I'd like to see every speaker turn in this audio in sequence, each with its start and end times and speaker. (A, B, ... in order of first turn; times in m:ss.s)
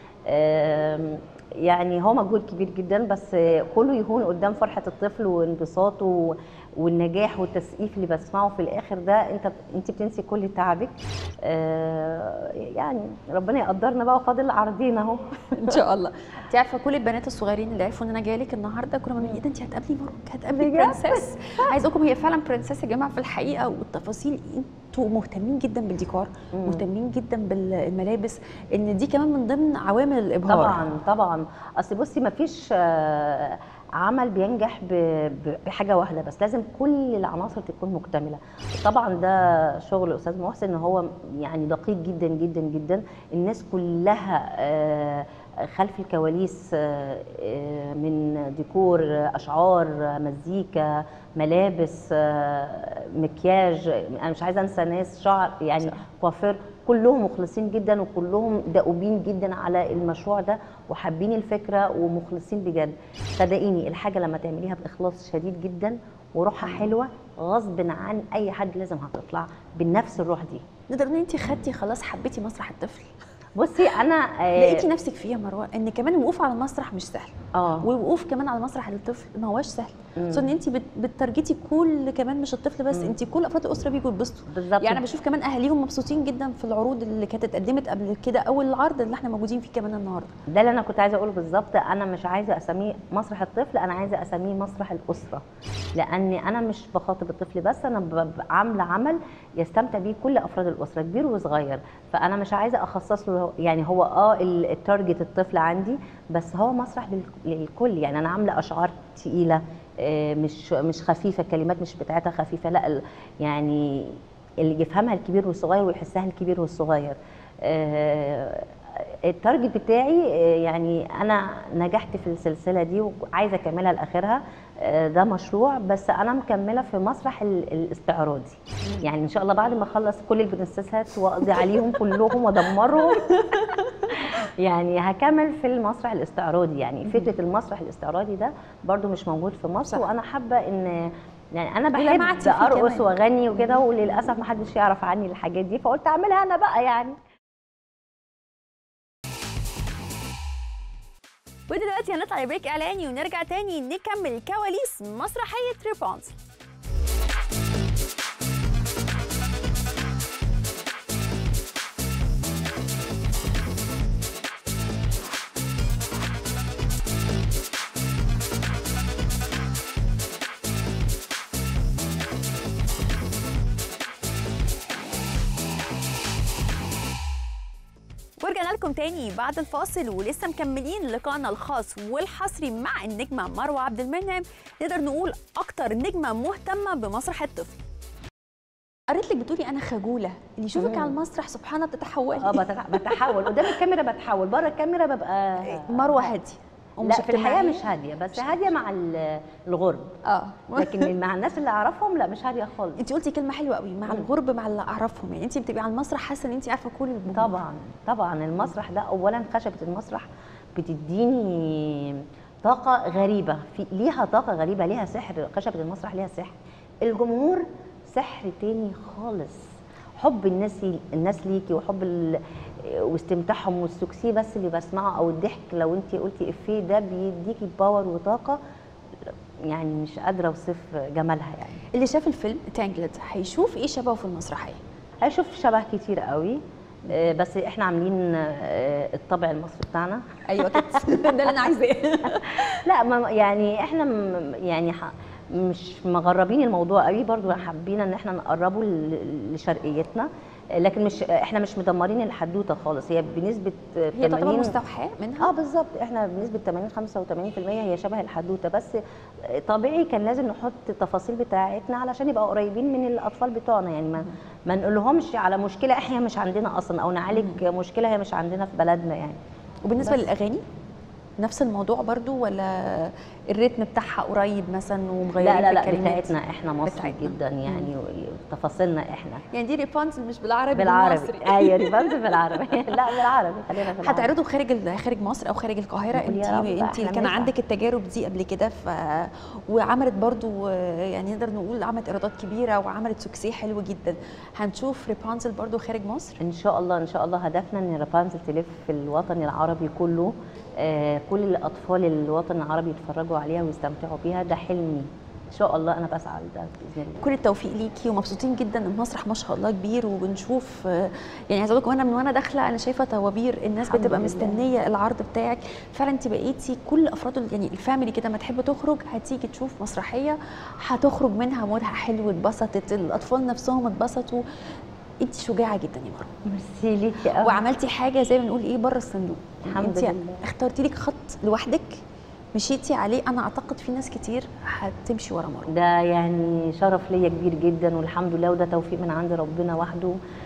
0:00.3-0:15.7 A
0:15.6-0:30.8 B
0:20.6-0:21.7 A
0:26.5-0:26.8 A
0:30.5-1:10.6 A
0:55.8-0:56.1 B
1:06.6-1:06.9 B
1:10.9-1:13.1 B
1:13.6-1:14.9 A
1:14.6-1:30.3 B
1:17.6-1:17.9 A
1:20.2-1:20.5 A
1:24.5-1:25.0 A
1:30.5-1:35.4 A
1:36.0-2:13.3 A
2:11.6-2:12.0 B
2:13.1-2:14.0 B
2:14.1-2:27.2 A
2:22.0-2:23.8 B
2:31.7-2:36.4 B
2:58.4-3:07.8 B
3:09.1-3:13.8 B
3:10.8-3:11.2 A
3:12.4-3:16.4 A
3:15.6-3:18.7 B
3:17.0-3:20.1 A
3:20.2-3:21.1 B
3:20.8-3:23.0 A
3:23.0-3:27.6 B
3:27.4-3:39.6 A
3:40.2-3:48.6 A
3:49.7-3:51.8 A
3:51.9-3:54.8 B
3:55.2-4:01.5 A
4:00.5-4:02.8 B
4:02.7-4:10.3 A
4:10.8-4:14.7 A
4:14.2-4:15.5 B
4:15.4-4:19.0 A
4:19.6-4:29.4 A
4:27.3-4:27.6 B
4:29.8-4:30.6 B
4:30.0-4:30.3 A
4:31.4-4:36.3 B
4:35.4-4:39.4 A
4:36.9-4:37.9 B
4:39.5-4:43.2 B
4:40.7-4:44.3 A
4:43.9-4:56.4 B
4:46.1-4:47.5 A
4:56.4-5:07.2 A
5:07.2-5:24.4 B
5:13.9-5:14.6 A
5:25.2-5:26.3 B
5:26.5-5:27.6 A
5:27.4-5:32.0 B
5:29.7-5:30.4 A
5:32.6-5:35.7 B
5:35.7-5:40.2 A